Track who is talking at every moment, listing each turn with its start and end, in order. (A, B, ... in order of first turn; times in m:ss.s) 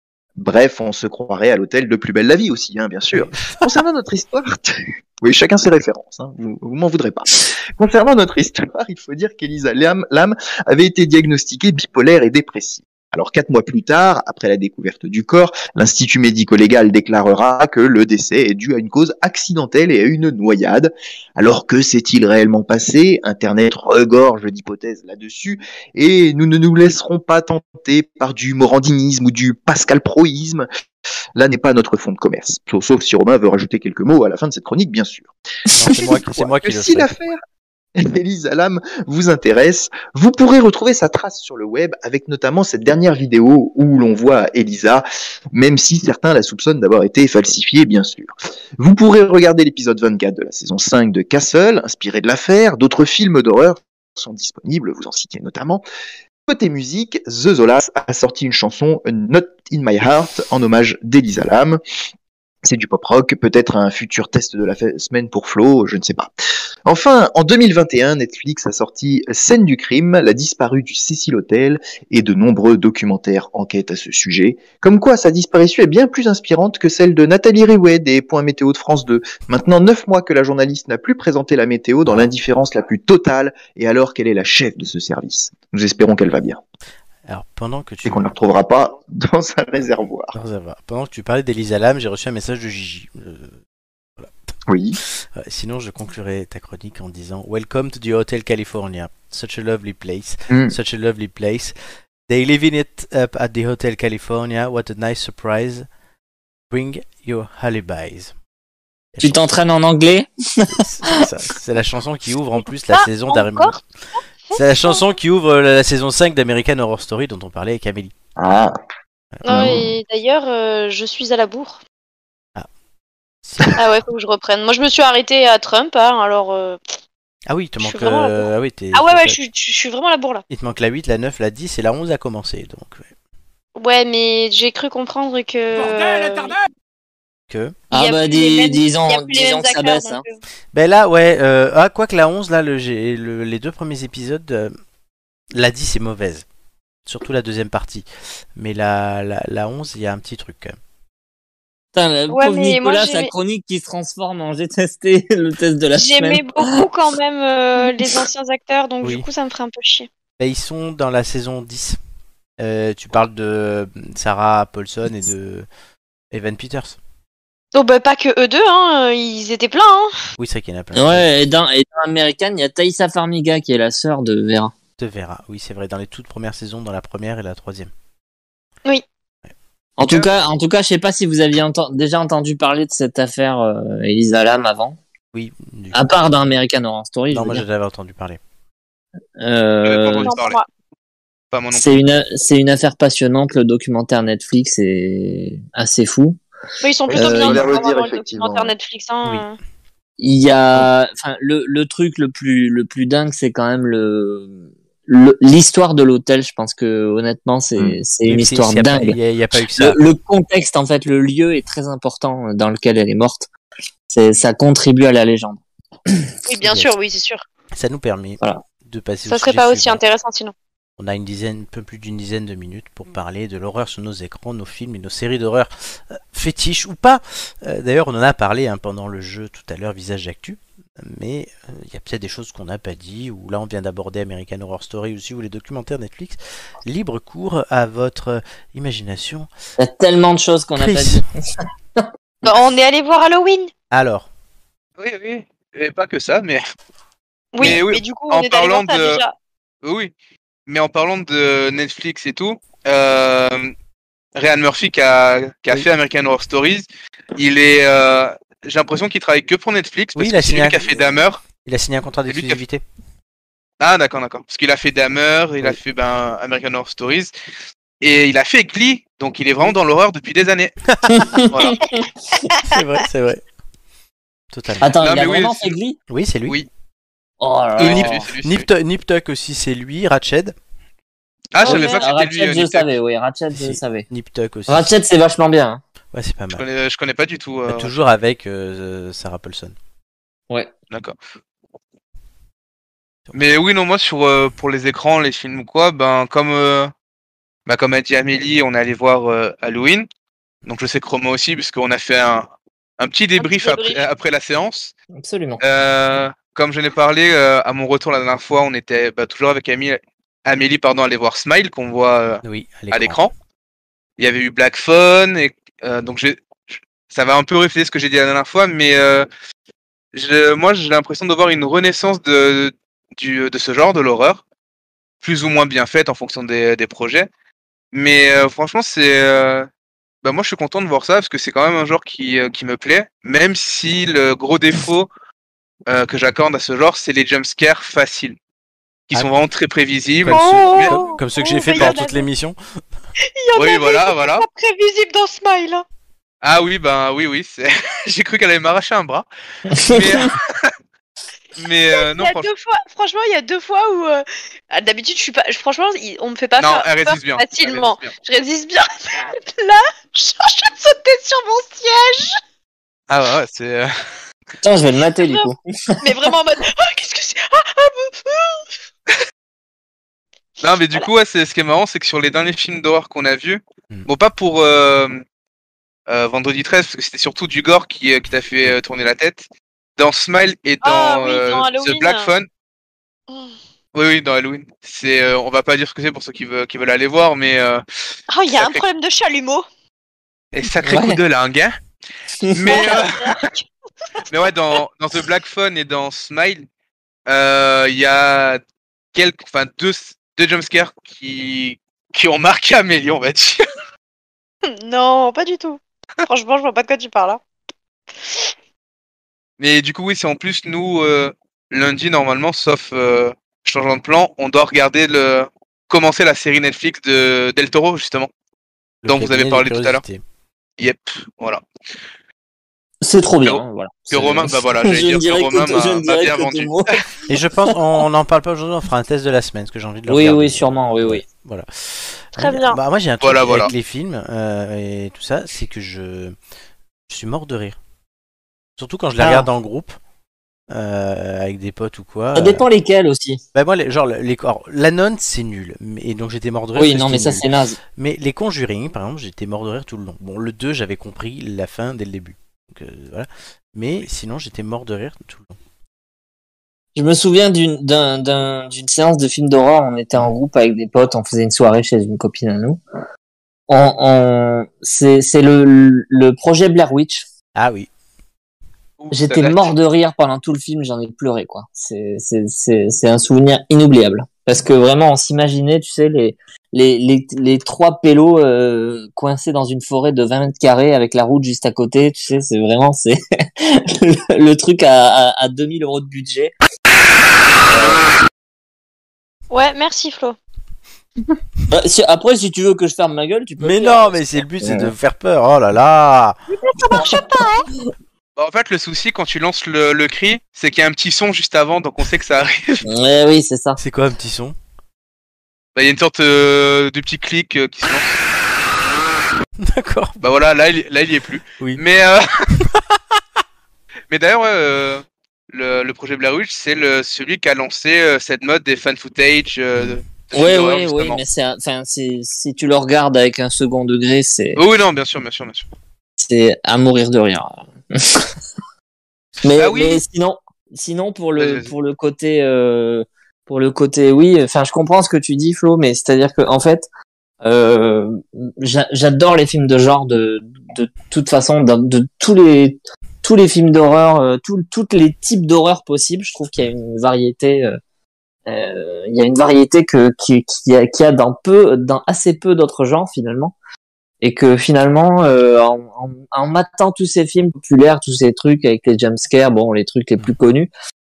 0:00.4-0:30.6 A
0:03.1-0:03.7 B
0:31.4-0:35.3 A
0:35.7-0:37.2 B
0:35.8-0:37.4 A
0:38.0-0:55.8 A
0:56.5-1:01.8 A
1:02.6-1:06.3 A
1:06.8-1:26.6 A
1:22.0-1:22.3 B
1:27.3-1:28.3 B
1:28.0-1:30.3 A
1:30.3-1:33.6 B
1:34.7-1:35.0 A
1:35.4-1:41.7 B
1:40.5-1:40.7 A
1:42.3-1:45.8 B
1:46.7-1:48.3 B
1:49.1-1:49.5 B
1:49.2-1:51.3 C
1:50.8-1:53.8 B
1:52.9-1:53.8 D
1:54.5-1:55.1 D
1:54.5-1:58.1 B
1:58.4-1:58.7 A
1:59.4-1:59.7 B
1:59.4-2:01.8 D
1:59.5-1:59.9 A
2:03.4-2:03.8 B
2:03.8-2:06.8 D
2:07.5-2:09.4 B
2:07.8-2:10.4 D
2:10.5-2:13.0 B
2:13.8-2:16.6 D
2:17.5-2:17.7 B
2:17.9-2:20.2 C
2:17.9-2:20.4 D
2:20.7-2:24.7 B
2:25.5-2:26.4 B
2:27.0-2:30.8 B
2:31.9-2:36.8 C
2:32.3-2:33.3 D
2:35.9-2:40.1 D
2:40.4-2:42.0 B
2:42.6-2:45.7 B
2:46.3-2:47.0 B
2:47.7-2:50.1 D
2:50.4-2:51.3 B
2:50.9-2:54.7 C
2:55.0-2:57.9 B
3:00.0-3:05.0 C
3:00.0-3:00.3 E
3:05.3-3:06.1 B
3:05.9-3:07.6 C
3:07.3-3:08.4 B
3:09.4-3:10.3 C
3:09.8-3:10.6 E
3:10.2-3:10.6 D
3:11.5-3:12.0 E
3:11.7-3:16.4 C
3:16.8-3:19.6 D
3:17.1-3:18.7 A
3:17.2-3:17.6 C
3:20.2-3:29.2 C
3:27.8-3:30.0 B
3:29.7-3:33.5 C
3:34.1-3:36.3 C
3:36.4-3:37.4 D
3:36.6-3:36.9 B
3:37.7-3:40.0 B
3:39.2-3:40.5 D
3:41.0-3:59.5 B
3:59.8-4:01.3 C
4:00.8-4:01.2 B
4:02.4-4:03.7 D
4:03.9-4:04.3 B
4:05.0-4:06.6 E
4:07.5-4:09.3 D
4:07.6-4:09.2 E
4:09.8-4:10.1 E
4:10.7-4:13.7 E
4:14.4-4:21.4 E
4:20.2-4:21.0 B
4:21.6-4:22.8 B
4:22.3-4:22.6 E
4:23.8-4:27.3 E
4:28.0-4:30.7 E
4:30.9-4:31.3 B
4:31.1-4:32.0 C
4:31.5-4:31.8 E
4:32.6-4:33.4 B
4:34.5-4:34.9 B
4:34.8-4:36.0 C
4:35.0-4:35.8 E
4:36.1-4:36.6 B
4:37.4-4:38.3 C
4:37.8-4:38.7 E
4:37.8-4:40.5 B
4:41.5-4:42.9 E
4:41.6-4:42.0 D
4:41.6-4:44.1 C
4:43.5-4:44.9 B
4:44.7-4:45.8 C
4:46.1-4:46.6 B
4:46.5-4:47.9 E
4:47.7-4:49.7 B
4:50.9-4:51.2 E
4:53.3-4:56.9 E
4:57.6-5:00.1 E
5:00.6-5:02.5 E
5:03.0-5:04.9 E
5:03.4-5:04.0 D
5:05.2-5:05.6 C
5:05.6-5:13.3 E
5:12.4-5:13.2 B
5:14.2-5:19.3 E
5:20.1-5:24.4 E
5:25.2-5:27.3 E
5:27.9-5:29.7 E
5:30.2-5:35.1 E
5:35.9-5:38.4 E
5:39.1-5:41.0 E
5:40.2-5:42.6 B
5:40.2-5:42.3 D
5:41.7-5:42.0 E
5:43.4-5:45.8 D
5:43.6-5:44.4 E
5:46.4-5:49.3 E
5:49.7-5:50.2 C
5:49.8-5:50.7 E
5:51.6-5:52.5 E
5:51.9-6:02.4 D
5:56.6-5:58.1 E
6:03.1-6:04.0 E
6:04.6-6:06.0 C
6:05.2-6:05.5 D
6:06.0-6:08.6 D
6:10.6-6:15.2 E
6:16.1-6:19.4 E
6:20.0-6:22.5 E
6:20.8-6:22.3 D
6:23.3-6:23.5 D
6:23.9-6:27.8 E
6:28.3-6:29.6 D
6:28.5-6:28.8 E
6:30.5-6:31.7 E
6:30.8-6:31.2 C
6:32.4-6:32.8 C
6:32.5-6:33.4 E
6:32.7-6:33.6 D
6:34.3-6:36.6 E
6:37.3-6:38.6 E
6:39.1-6:43.6 E
6:44.7-6:47.4 D
6:49.6-6:58.3 E
6:59.0-7:00.2 B
6:59.1-7:00.0 E
7:00.8-7:01.6 E
7:03.0-7:07.0 C
7:03.4-7:06.7 E
7:07.3-7:16.4 B
7:10.1-7:11.2 C
7:12.4-7:12.8 D
7:13.2-7:13.7 E
7:17.1-7:17.8 B
7:18.8-7:20.0 B
7:19.2-7:19.5 C
7:20.7-7:22.6 B
7:22.3-7:23.4 C
7:23.5-7:35.6 B
7:26.8-7:27.8 C
7:36.9-7:42.8 C
7:43.7-7:47.2 C
7:47.6-7:47.9 B
7:49.0-7:49.7 E
7:49.1-8:06.5 C
8:07.7-8:08.0 C
8:09.5-8:10.4 D
8:11.7-8:14.9 C
8:13.6-8:16.4 B
8:16.5-8:17.6 D
8:16.9-8:17.4 C
8:18.4-8:22.8 E
8:22.8-8:23.8 C
8:23.8-8:24.5 B
8:25.7-8:28.2 E
8:29.6-8:30.2 B
8:30.2-8:32.3 E
8:34.1-8:41.2 E
8:40.3-8:44.6 C
8:44.6-8:45.7 E
8:46.2-8:48.4 C
8:49.4-8:50.0 E
8:49.4-8:56.9 C
8:51.4-8:51.7 E
8:57.4-9:07.8 C
9:08.5-9:13.5 C
9:14.2-9:20.7 C